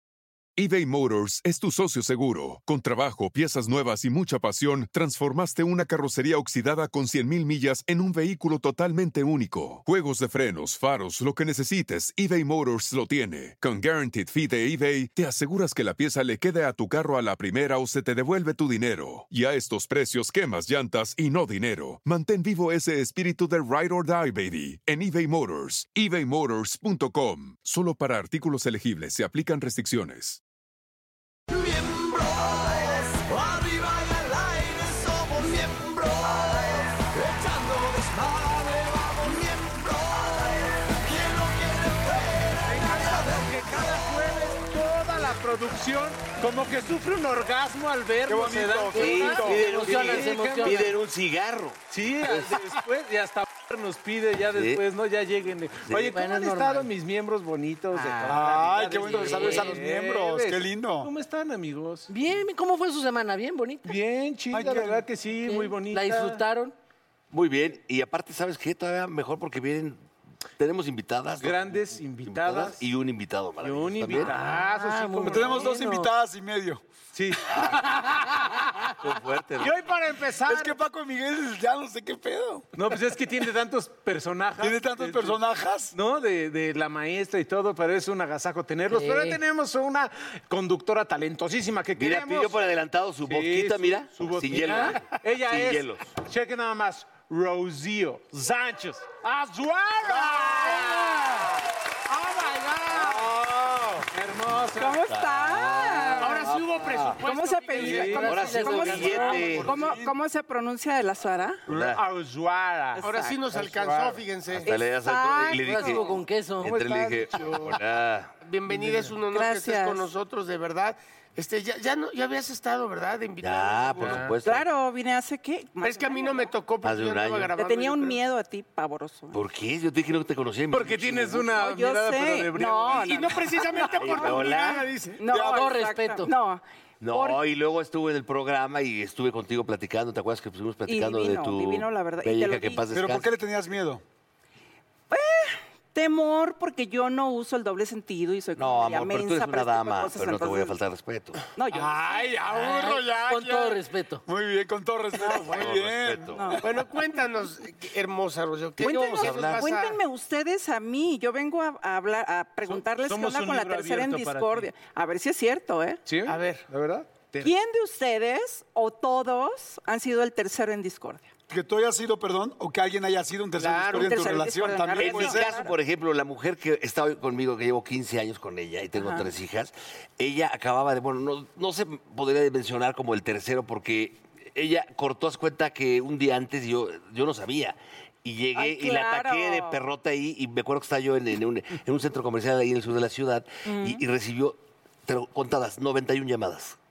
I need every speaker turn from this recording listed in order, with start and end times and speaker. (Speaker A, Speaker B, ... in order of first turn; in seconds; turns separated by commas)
Speaker A: 0.6-30.4, Speaker B: 31.5-44.1, Speaker C: 42.7-50.9, Speaker D: 48.3-49.6, Speaker E: 48.9-50.9, Speaker F: 49.0-52.6, Speaker C: 51.9-62.1, Speaker F: 54.5-54.8, Speaker E: 56.1-56.9, Speaker E: 57.9-58.5, Speaker D: 58.2-61.1, Speaker E: 59.0-59.8, Speaker E: 62.1-64.0, Speaker C: 63.9-66.4, Speaker D: 64.5-65.0, Speaker E: 65.5-66.8, Speaker F: 67.3-70.0, Speaker F: 70.6-74.4, Speaker C: 71.4-72.8, Speaker C: 73.6-75.8, Speaker E: 74.2-76.1, Speaker D: 75.2-76.8, Speaker C: 77.1-78.7, Speaker F: 79.0-79.7, Speaker C: 79.6-80.8, Speaker D: 80.5-82.7, Speaker C: 82.8-85.4, Speaker D: 84.6-86.0, Speaker C: 85.9-92.7, Speaker E: 88.9-89.4, Speaker F: 92.0-96.2, Speaker C: 93.3-101.5, Speaker E: 94.6-95.0, Speaker C: 102.1-105.0, Speaker G: 104.8-106.5, Speaker F: 105.1-107.2, Speaker H: 106.2-108.3, Speaker G: 107.2-111.6, Speaker C: 107.8-109.8, Speaker F: 108.1-109.7, Speaker E: 108.3-109.6, Speaker D: 109.7-110.1, Speaker F: 111.7-112.0, Speaker C: 111.7-114.2, Speaker G: 113.0-113.4, Speaker H: 113.0-114.7, Speaker F: 114.5-118.3, Speaker G: 114.7-116.2, Speaker E: 115.6-117.2, Speaker H: 118.4-124.2, Speaker C: 118.7-119.1, Speaker G: 119.3-120.1, Speaker F: 123.4-124.7, Speaker C: 124.0-124.4, Speaker G: 124.4-126.5, Speaker H: 125.8-128.2, Speaker F: 126.8-127.5, Speaker G: 127.6-129.4, Speaker F: 129.3-131.5, Speaker C: 130.7-133.6, Speaker G: 131.6-137.4, Speaker H: 132.9-135.2, Speaker F: 133.8-135.0, Speaker D: 135.3-135.7, Speaker E: 135.3-136.3, Speaker F: 137.0-143.3, Speaker G: 140.9-142.8, Speaker D: 142.9-144.0, Speaker G: 145.1-150.7, Speaker F: 148.6-151.4, Speaker G: 151.6-151.9, Speaker D: 151.7-156.7, Speaker E: 152.5-154.2, Speaker F: 155.4-156.7, Speaker G: 156.3-156.6, Speaker H: 156.6-160.0, Speaker F: 158.8-159.7, Speaker G: 158.8-166.0, Speaker C: 162.7-164.7, Speaker C: 166.1-167.5, Speaker H: 166.3-166.7, Speaker G: 167.4-171.3, Speaker D: 171.5-175.6, Speaker H: 173.6-174.4, Speaker G: 173.9-175.7, Speaker F: 174.9-196.8, Speaker G: 179.0-179.3, Speaker G: 188.6-189.8, Speaker G: 193.7-194.0